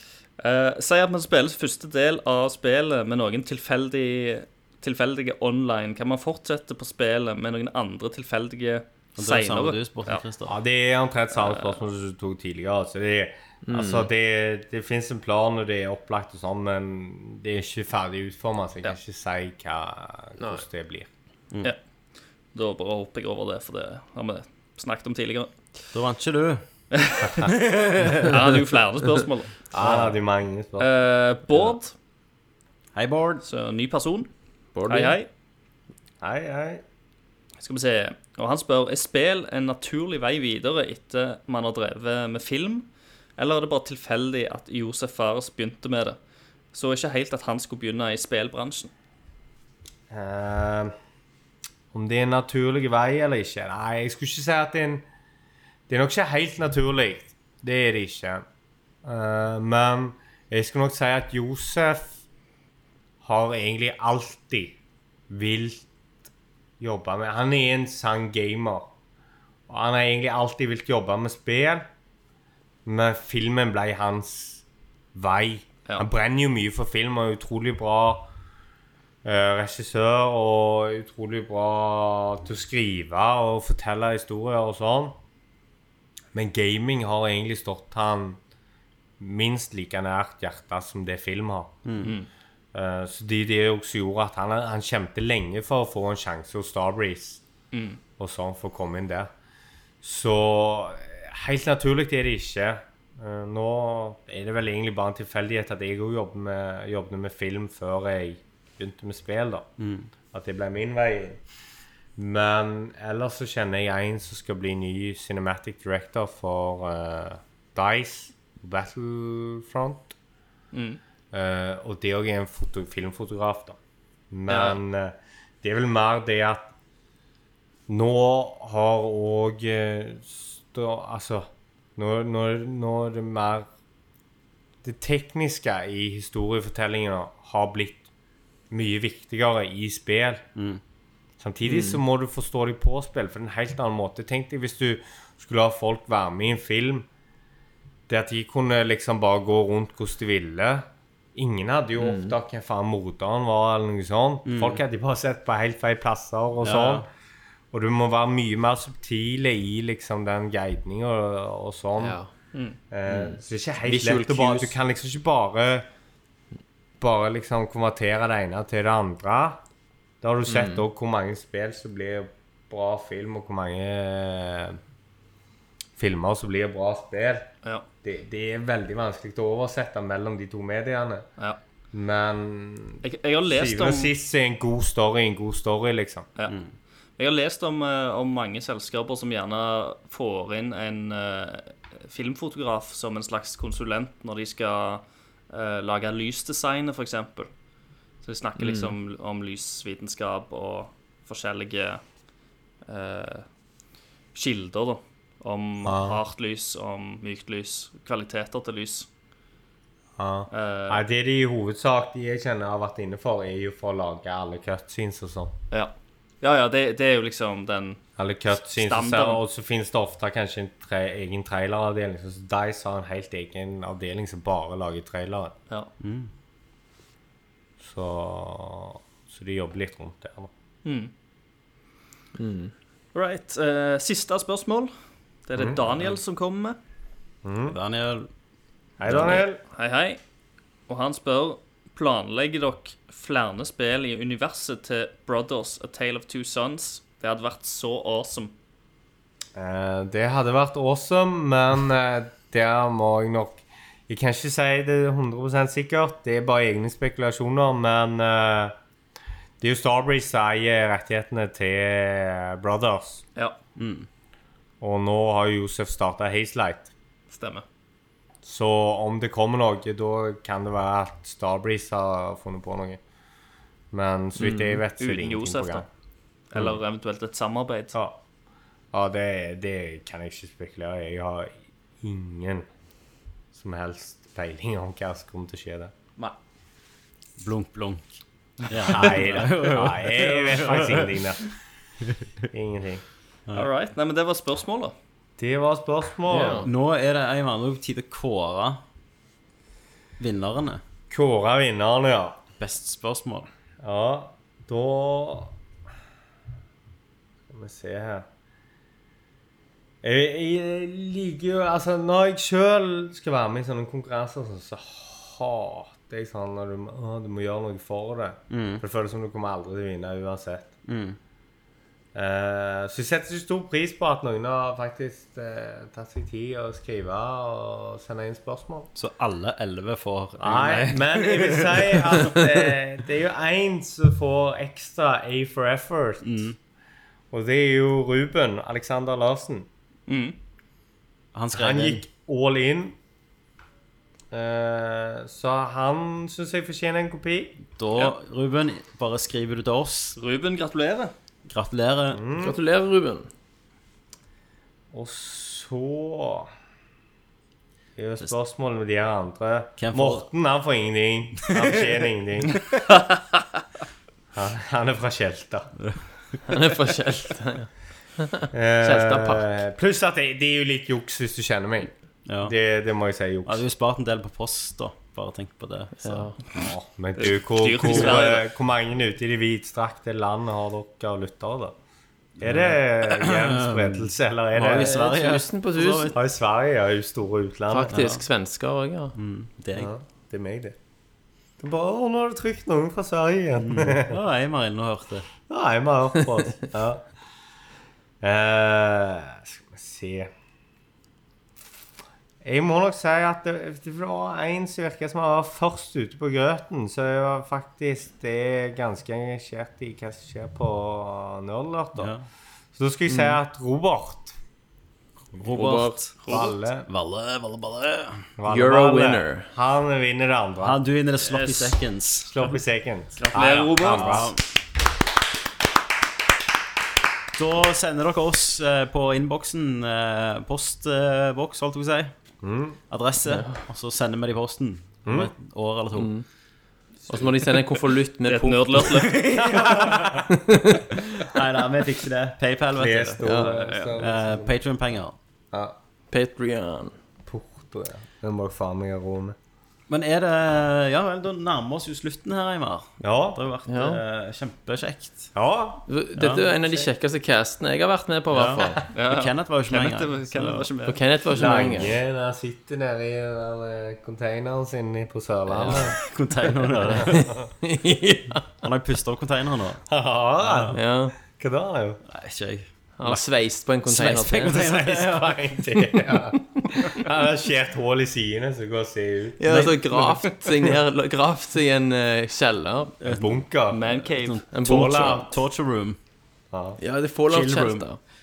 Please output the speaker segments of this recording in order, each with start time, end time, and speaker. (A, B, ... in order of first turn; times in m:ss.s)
0:00.4-0:10.2 A
0:09.2-0:10.6 B
0:10.4-0:21.1 C
0:11.4-0:11.8 A
0:13.6-0:14.1 D
0:20.4-0:20.6 D
0:22.5-0:25.5 A
0:25.9-0:26.6 B
0:26.9-0:27.5 A
0:27.4-0:28.4 B
0:28.2-0:29.6 A
0:29.7-0:30.9 C
0:30.8-0:31.9 A
0:32.9-0:33.4 B
0:33.4-0:34.3 A
0:34.7-0:35.2 D
0:34.9-0:35.3 A
0:36.2-0:36.8 C
0:37.6-0:46.2 A
0:46.7-0:48.9 A
0:50.1-0:50.9 C
0:51.9-0:55.0 C
0:55.9-0:58.4 C
0:59.0-1:02.2 C
1:03.2-1:04.8 C
1:05.3-1:05.8 C
1:06.8-1:08.9 C
1:09.7-1:11.9 C
1:12.8-1:18.3 C
1:19.2-1:25.2 C
1:26.3-1:28.4 C
1:29.2-1:31.8 C
1:31.8-1:32.1 B
1:32.0-1:32.3 A
1:32.7-1:37.4 C
1:37.7-1:38.0 A
1:38.2-1:39.3 C
1:40.0-1:49.7 C
1:49.8-1:50.1 B
1:50.3-1:51.4 C
1:52.2-2:00.2 C
2:00.7-2:01.0 A
2:01.3-2:03.8 C
2:04.3-2:06.7 C
2:04.5-2:04.8 A
2:07.9-2:13.7 C
2:14.8-2:18.1 C
2:18.7-2:20.4 C
2:20.6-2:20.8 B
2:21.4-2:27.1 C
2:21.6-2:22.0 D
2:28.1-2:37.1 C
2:32.0-2:32.4 D
2:34.4-2:34.8 B
2:36.6-2:37.0 B
2:37.7-2:42.2 C
2:42.0-2:42.3 D
2:42.9-2:45.9 C
2:43.1-2:44.8 D
2:47.0-2:49.6 C
2:50.2-2:54.8 C
2:50.5-2:50.8 D
2:56.0-2:57.5 C
2:58.0-3:01.3 C
3:01.9-3:06.3 C
3:03.0-3:04.1 A
3:07.2-3:17.5 A
3:18.2-3:22.0 A
3:18.6-3:18.9 D
3:22.8-3:23.4 A
3:24.3-3:29.1 A
3:25.8-3:26.2 C
3:30.2-3:35.6 C
3:30.5-3:31.0 A
3:35.7-3:38.0 A
3:38.2-3:45.5 C
3:38.6-3:39.4 A
3:46.0-3:46.3 B
3:47.8-3:50.5 C
3:50.8-3:51.1 A
3:52.4-3:52.7 D
3:53.1-3:54.9 A
3:55.4-3:56.8 A
3:55.6-3:55.8 C
3:57.4-3:57.8 C
3:57.7-3:58.3 B
3:59.0-3:59.6 C
3:59.0-4:00.2 A
4:00.9-4:08.5 A
4:09.6-4:18.7 C
4:19.6-4:23.2 C
4:23.8-4:24.1 B
4:24.8-4:26.9 C
4:27.3-4:27.6 A
4:28.4-4:33.0 C
4:33.9-4:35.9 C
4:34.4-4:34.7 D
4:35.0-4:35.8 A
4:36.5-4:38.0 A
4:37.9-4:38.2 C
4:38.9-4:42.7 C
4:43.5-4:45.9 C
4:47.4-4:48.1 B
4:48.6-4:51.2 B
4:48.8-4:51.5 C
4:52.5-4:53.0 C
4:53.5-4:54.9 A
4:55.4-4:56.7 C
4:56.3-4:56.7 D
4:56.6-4:58.8 B
5:00.2-5:00.8 B
5:01.1-5:02.4 C
5:02.6-5:03.5 B
5:03.8-5:05.6 C
5:07.5-5:08.2 C
5:10.0-5:20.7 C
5:18.5-5:18.8 B
5:20.9-5:21.2 B
5:22.1-5:28.9 C
5:28.9-5:32.1 B
5:30.4-5:36.2 C
5:36.2-5:36.6 B
5:37.3-5:39.7 C
5:40.1-5:40.4 A
5:41.3-5:42.0 B
5:41.5-5:43.0 C
5:44.3-5:47.6 C
5:47.8-5:50.2 B
5:50.2-5:51.1 A
5:51.5-5:52.2 B
5:52.1-5:52.6 C
5:52.4-5:53.3 D
5:54.9-5:56.5 C
5:58.0-6:02.6 C
5:59.8-6:00.3 B
6:04.3-6:05.7 C
6:06.5-6:09.5 D
6:08.5-6:13.6 C
6:12.3-6:12.5 B
6:13.4-6:16.3 B
6:16.0-6:16.4 D
6:16.5-6:21.8 C
6:17.2-6:18.4 A
6:22.4-6:25.0 C
6:22.4-6:26.2 B
6:24.8-6:26.2 D
6:26.1-6:28.0 C
6:27.7-6:29.1 D
6:27.9-6:28.2 B
6:29.1-6:29.9 B
6:29.7-6:30.8 C
6:31.6-6:34.2 C
6:33.6-6:35.2 B
6:35.5-6:37.0 C
6:38.2-6:40.3 C
6:42.4-6:52.1 C
6:52.0-6:52.2 B
6:52.8-6:54.4 C
6:55.4-6:58.3 B
6:55.5-6:56.0 D
6:56.2-6:56.9 C
6:58.4-7:00.8 C
6:58.5-6:59.5 D
7:00.6-7:02.3 B
7:01.2-7:01.8 A
7:02.2-7:04.3 C
7:03.2-7:04.3 A
7:03.8-7:04.4 B
7:07.4-7:12.1 B
7:12.4-7:12.8 C
7:12.9-7:16.1 B
7:13.2-7:13.6 D
7:15.0-7:15.3 C
7:15.9-7:16.2 D
7:17.1-7:19.0 D
7:18.3-7:19.2 A
7:18.8-7:20.3 B
7:19.5-7:20.2 C
7:20.3-7:20.8 D
7:21.2-7:25.2 B
7:22.7-7:24.6 C
7:23.2-7:23.5 D
7:25.5-7:25.8 C
7:26.1-7:27.0 D
7:27.2-7:29.4 C
7:29.9-7:35.3 B
7:33.0-7:33.4 C
7:33.7-7:34.0 D
7:35.3-7:35.8 C
7:35.8-7:38.8 D
7:36.2-7:36.9 B
7:38.3-7:40.7 B
7:38.9-7:41.0 A
7:40.8-7:42.0 D
7:41.3-7:46.0 C
7:45.5-7:45.8 D
7:46.0-7:47.4 B
7:46.8-7:47.2 C
7:47.0-7:48.5 D
7:48.6-7:49.8 B
7:49.9-7:52.0 C
7:50.4-7:50.8 B
7:50.7-7:51.2 D
7:52.1-7:53.2 B
7:53.0-7:54.6 D
7:53.8-7:55.4 B
7:54.4-7:59.4 C
7:59.4-8:02.9 D
7:59.4-8:00.3 B
8:03.0-8:06.0 B
8:03.0-8:03.8 C
8:03.7-8:04.4 A
8:04.5-8:05.2 D
8:04.6-8:05.3 C
8:06.5-8:06.8 C
8:06.8-8:08.0 D
8:07.3-8:07.8 B